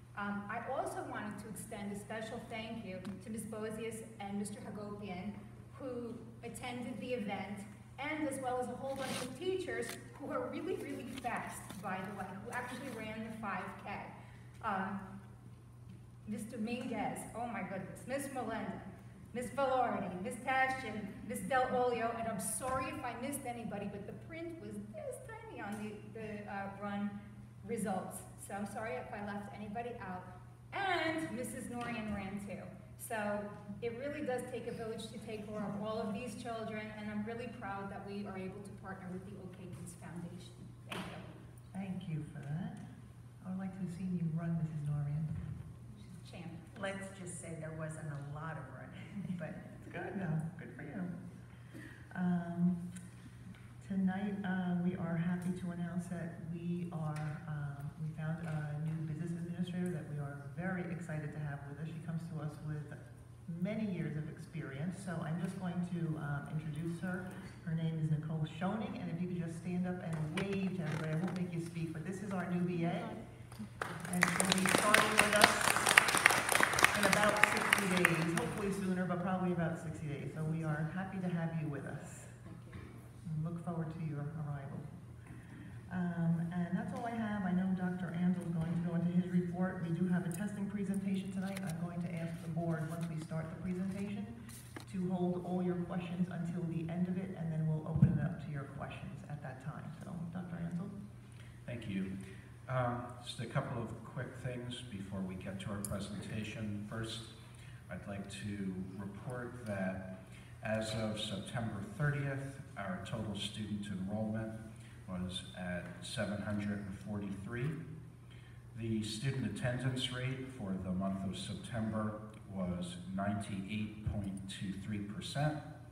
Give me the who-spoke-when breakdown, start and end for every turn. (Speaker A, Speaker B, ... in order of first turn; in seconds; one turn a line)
Speaker A: 0.1-15.0
Speaker A: 16.2-41.2
Speaker B: 41.7-42.8
Speaker B: 43.4-45.3
Speaker A: 46.1-46.9
Speaker C: 46.9-49.5
Speaker B: 49.7-51.1
Speaker B: 52.1-52.8
Speaker B: 53.8-73.2
Speaker B: 74.1-76.0
Speaker B: 76.9-82.4
Speaker B: 83.2-84.9
Speaker B: 85.9-94.3
Speaker B: 94.9-100.9
Speaker D: 101.7-102.1
Speaker D: 102.7-107.3
Speaker D: 107.9-110.0
Speaker D: 110.6-117.7
Speaker D: 118.7-125.6